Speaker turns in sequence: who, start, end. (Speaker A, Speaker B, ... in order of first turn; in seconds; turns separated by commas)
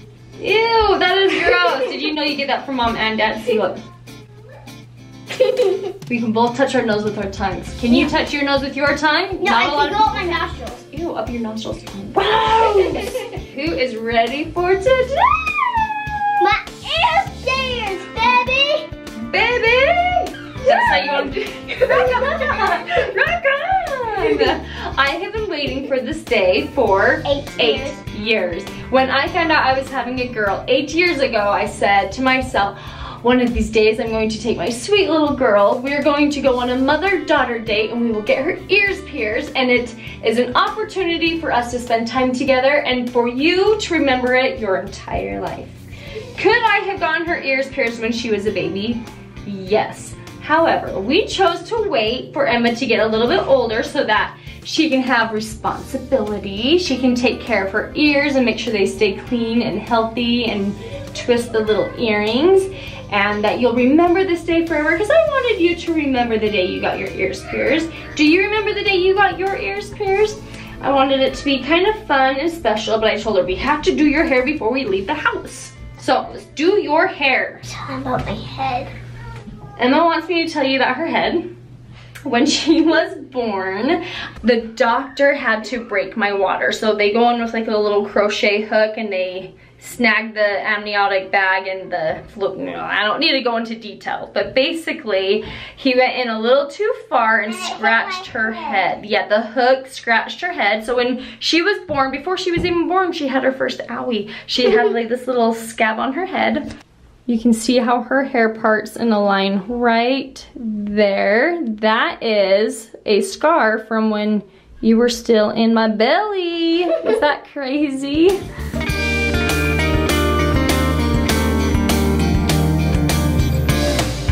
Speaker A: 0.4-3.8, Speaker A: 6.1-15.9, Speaker B: 7.9-8.2, Speaker B: 9.4-10.8, Speaker B: 16.4-18.9, Speaker A: 19.3-45.8, Speaker B: 20.6-21.0, Speaker B: 27.2-28.0, Speaker A: 46.4-77.7, Speaker B: 77.7-78.9, Speaker A: 79.8-81.5, Speaker A: 82.3-106.7, Speaker B: 97.5-98.9, Speaker A: 107.3-118.4